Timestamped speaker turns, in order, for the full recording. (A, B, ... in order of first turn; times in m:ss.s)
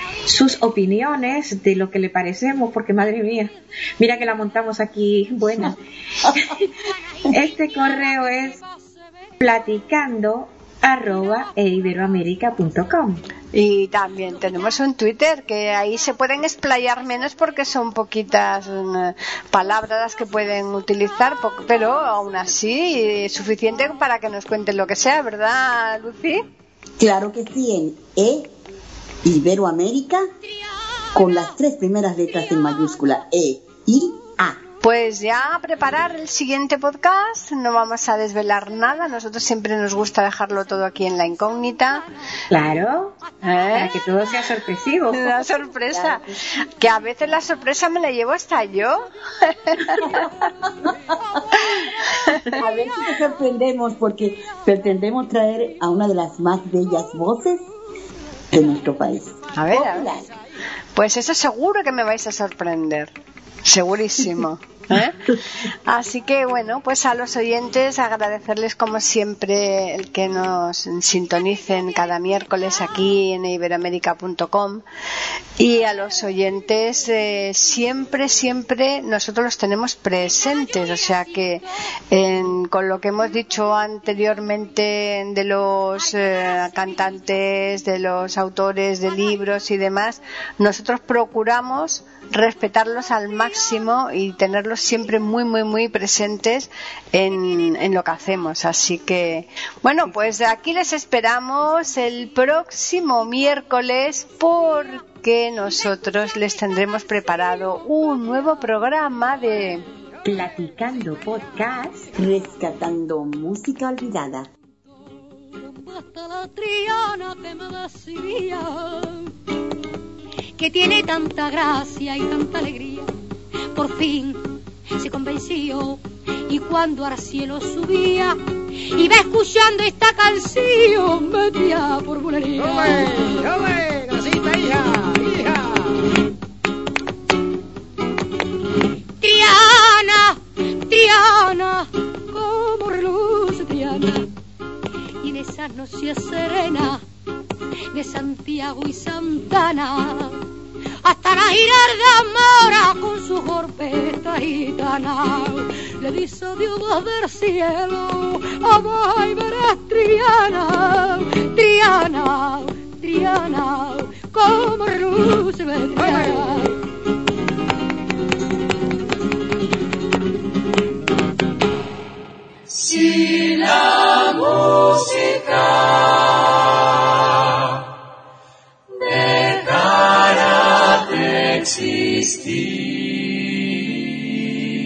0:00.2-0:06.7 A
0:07.3-0:08.6 A
0:09.4-0:13.2 A
0:13.5-0:26.4 B
0:27.0-0:28.5 C
0:29.2-0:30.2 C
0:31.1-0:34.6 C
0:34.8-0:42.1 B
0:42.5-0:43.2 A
0:43.4-0:43.9 B
0:43.7-0:45.3 A
0:45.1-0:50.3 B
0:45.9-0:46.4 C
0:49.8-0:51.0 C
0:51.8-0:52.4 B
0:52.5-0:57.7 C
0:58.5-1:00.3 C
0:59.6-1:00.1 B
1:00.9-1:03.1 B
1:03.6-1:14.8 B
1:15.6-1:49.8 B
1:50.2-1:52.1 A
1:52.2-1:54.5 C
1:55.6-1:59.3 D
2:00.6-2:03.1 D
2:03.7-2:13.5 D
2:12.6-2:16.0 E
2:19.2-2:24.3 D
2:25.2-2:27.0 D
2:27.9-2:30.4 D
2:31.0-2:46.8 D